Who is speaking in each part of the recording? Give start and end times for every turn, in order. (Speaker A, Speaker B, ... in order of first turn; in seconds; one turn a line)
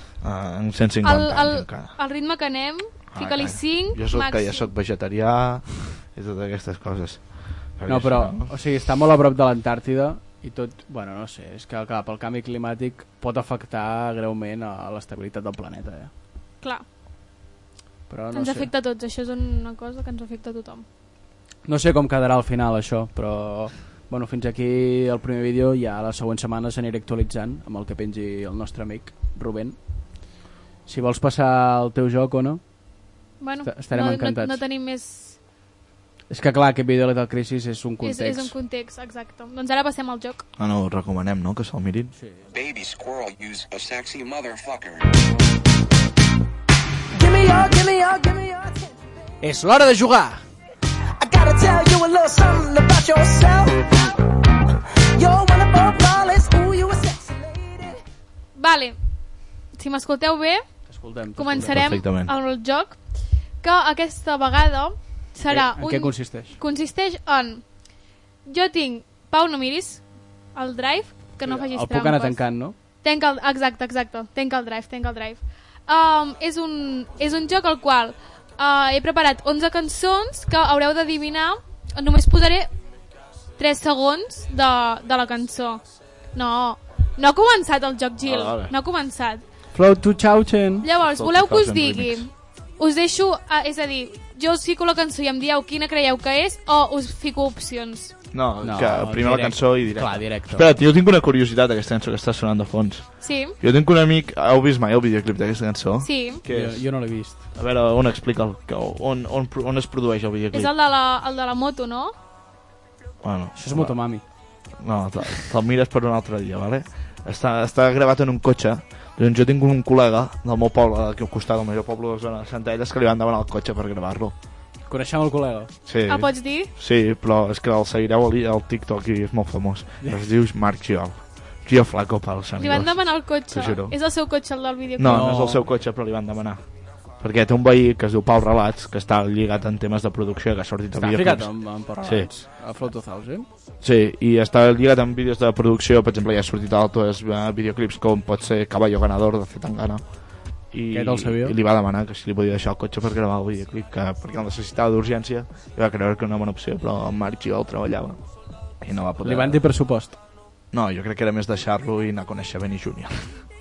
Speaker A: 0.2-1.9
Speaker B: 1.0-4.7
Speaker A: 3.1-8.5
Speaker C: 7.9-16.1
Speaker C: 18.1-18.7
Speaker B: 18.3-20.8
Speaker C: 21.6-29.8
Speaker C: 30.9-32.6
Speaker B: 33.4-35.4
Speaker C: 33.6-34.6
Speaker C: 36.3-38.5
Speaker B: 38.0-40.4
Speaker A: 40.6-42.1
Speaker C: 42.1-42.4
Speaker D: 42.5-45.1
Speaker E: 47.3-48.7
Speaker C: 49.4-50.4
Speaker E: 51.2-53.7
Speaker E: 55.2-57.4
Speaker B: 58.5-59.0
Speaker B: 59.8-60.6
Speaker C: 60.9-61.8
Speaker B: 61.4-63.0
Speaker A: 61.6-62.3
Speaker B: 63.6-67.7
Speaker C: 65.5-66.6
Speaker B: 68.5-70.0
Speaker B: 70.5-72.4
Speaker C: 71.4-72.8
Speaker B: 72.9-82.7
Speaker B: 83.6-85.8
Speaker B: 86.3-89.4
Speaker A: 88.2-88.7
Speaker C: 89.7-90.8
Speaker B: 90.8-98.1
Speaker A: 91.0-92.2
Speaker A: 98.3-106.9
Speaker C: 98.6-100.7
Speaker B: 103.2-103.5
Speaker B: 106.0-106.4
Speaker C: 106.5-107.5
Speaker A: 107.5-110.7
Speaker B: 110.5-112.1
Speaker A: 113.2-114.0
Speaker C: 113.5-114.2
Speaker A: 114.8-124.3
Speaker C: 124.9-125.7
Speaker A: 125.8-133.9
Speaker B: 126.1-126.7
Speaker B: 132.6-135.3
Speaker A: 135.0-136.6
Speaker C: 135.0-135.7
Speaker A: 137.2-142.3
Speaker C: 140.9-143.5
Speaker A: 143.8-150.0
Speaker A: 150.7-158.2
Speaker C: 150.9-151.6
Speaker A: 158.8-159.6
Speaker C: 159.2-160.2
Speaker A: 160.7-163.4